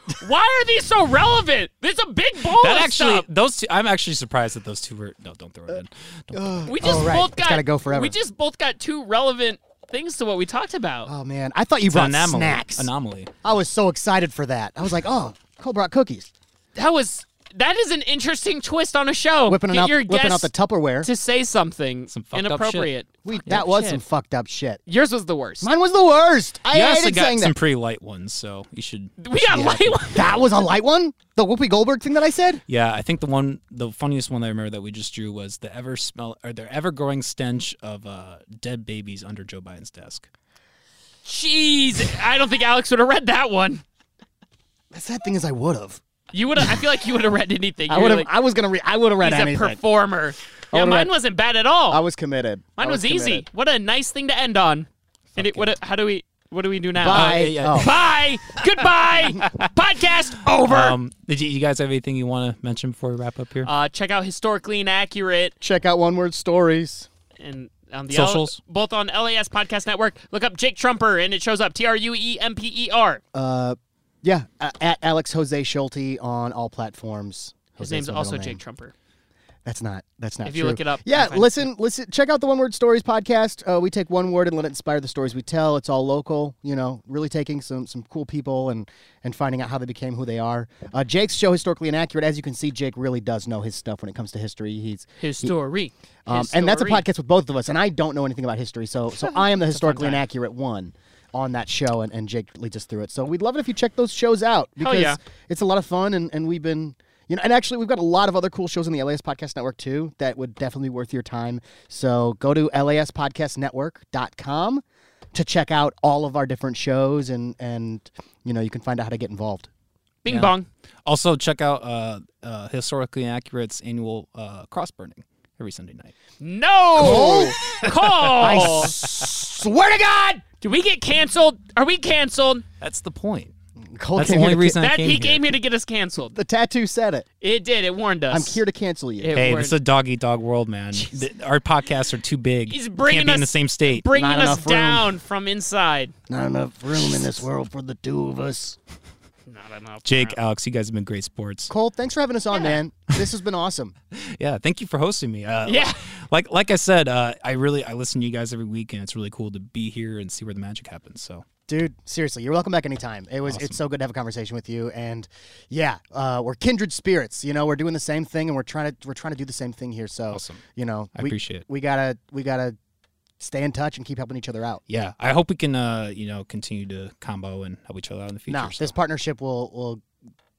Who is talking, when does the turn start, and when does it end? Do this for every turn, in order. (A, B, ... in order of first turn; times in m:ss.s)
0:00.2-0:03.3 A
0:02.5-0:06.6 B
0:06.3-0:08.1 C
0:06.7-0:11.1 A
0:11.0-0:12.9 C
0:11.9-0:13.3 B
0:13.4-0:16.3 C
0:16.8-0:20.5 A
0:19.5-0:21.1 C
0:21.0-0:24.0 A
0:22.1-0:22.9 B
0:23.2-0:24.8 C
0:24.8-0:25.7 A
0:25.6-0:27.5 C
0:26.7-0:30.3 B
0:29.2-0:30.3 A
0:30.1-0:32.6 C
0:32.7-0:40.3 B
0:41.2-0:43.8 A
0:44.9-0:46.0 C
0:46.3-0:48.3 A
0:47.9-0:49.8 C
0:49.2-0:52.0 A
0:50.7-0:51.1 C
0:51.9-0:53.4 C
0:52.8-1:00.9 A
0:55.3-0:55.7 B
0:57.0-0:57.9 C
0:57.0-0:58.0 B
0:59.4-0:59.7 B
1:00.4-1:03.7 B
1:03.6-1:05.5 A
1:05.6-1:07.1 C
1:07.4-1:13.2 A
1:08.1-1:08.6 B
1:13.3-1:18.6 C
1:17.8-1:18.9 A
1:19.6-1:35.5 C
1:20.4-1:21.7 A
1:35.2-1:37.0 A
1:36.2-1:59.7 C
1:39.3-1:40.2 A
1:44.8-1:45.2 A
2:00.2-2:00.7 A
2:00.3-2:00.5 B
2:01.0-2:06.1 B
2:06.4-2:08.9 A
2:07.0-2:07.6 C
2:08.4-2:10.4 C
2:08.5-2:08.9 B
2:10.6-2:12.6 A
2:12.8-2:13.5 B
2:13.9-2:14.8 C
2:14.2-2:15.5 B
2:14.8-2:16.3 A
2:16.3-2:17.2 C
2:17.4-2:18.6 A
2:18.3-2:19.4 C
2:19.2-2:19.8 A
2:19.3-2:24.0 B
2:20.9-2:21.2 A
2:22.7-2:26.1 A
2:24.1-2:25.1 C
2:26.3-2:28.8 C
2:29.5-2:30.4 A
2:30.0-2:31.7 B
2:31.7-2:33.9 C
2:34.1-2:41.4 B
2:35.6-2:36.0 A
2:41.7-2:52.8 C
2:43.5-2:43.8 B
2:50.3-2:50.6 B
2:51.2-2:51.6 B
2:53.4-2:54.8 C
2:54.9-2:58.9 B
2:58.5-3:00.0 C